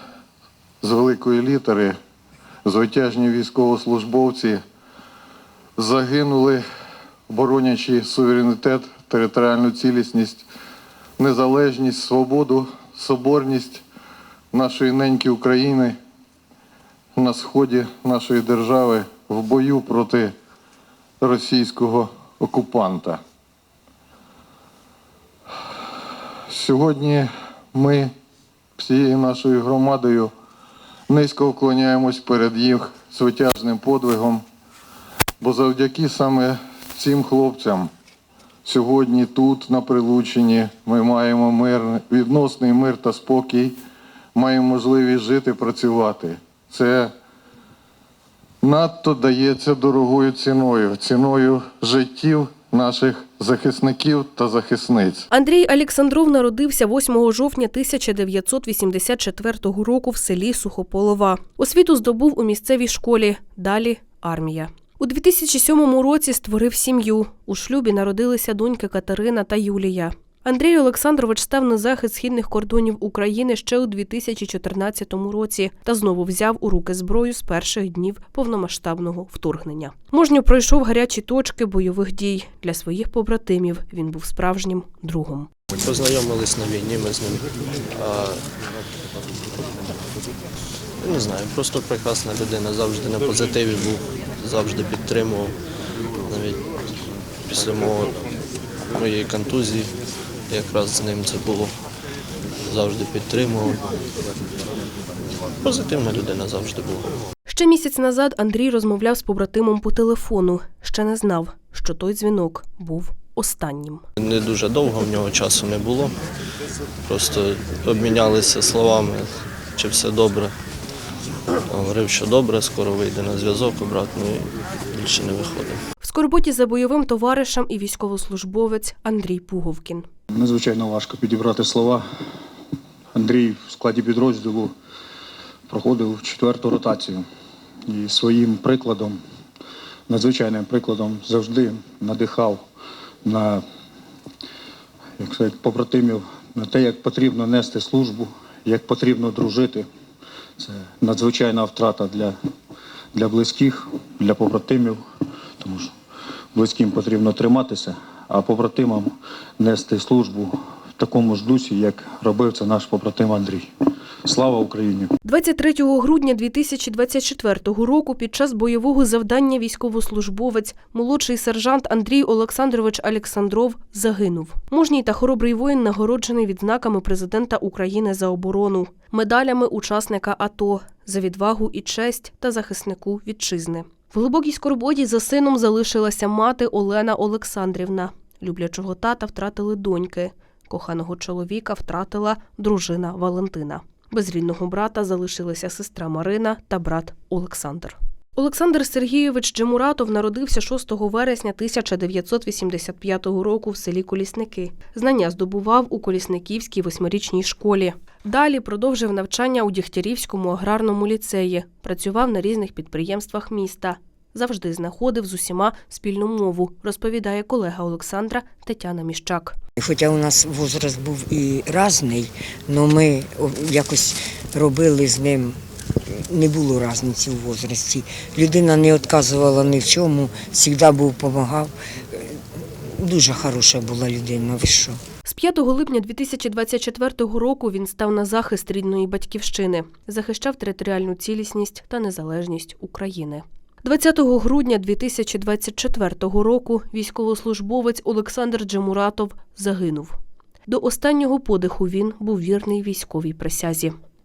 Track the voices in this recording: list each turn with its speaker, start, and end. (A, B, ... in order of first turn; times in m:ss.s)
0:00.8-0:02.0 A
0:02.6-0:04.6 A
0:05.8-0:06.6 A
0:07.3-0:10.4 A
0:11.2-0:13.8 A
0:14.5-0:16.0 A
0:17.2-0:20.3 A
0:21.2-0:23.2 A
0:26.5-0:28.1 A
0:28.8-0:30.3 A
0:31.1-0:34.4 A
0:35.4-0:37.9 A
0:38.6-0:43.8 A
0:44.4-0:47.1 A
0:48.6-0:55.3 A
0:55.3-1:25.5 B
1:25.7-1:28.4 C
1:31.0-1:35.6 C
1:36.2-1:36.6 C
1:37.5-1:38.1 C
1:39.0-1:39.9 C
1:40.5-1:41.7 C
1:42.7-1:43.8 C
1:45.6-1:47.1 C
1:47.5-1:54.0 B
1:54.2-1:56.2 C
1:57.1-2:00.5 C
2:01.7-2:05.8 C
2:06.0-2:10.1 B
2:10.3-2:12.0 D
2:13.1-2:14.7 D
2:15.7-2:17.2 D
2:17.9-2:19.2 D
2:20.1-2:22.6 D
2:23.2-2:23.6 D
2:25.2-2:29.9 D
2:30.6-2:32.4 D
2:33.1-2:35.0 D
2:35.6-2:35.9 D
2:36.5-2:43.7 D
2:44.2-2:45.1 D
2:45.2-3:39.6 B
3:39.8-3:55.0 E
3:55.3-4:13.9 B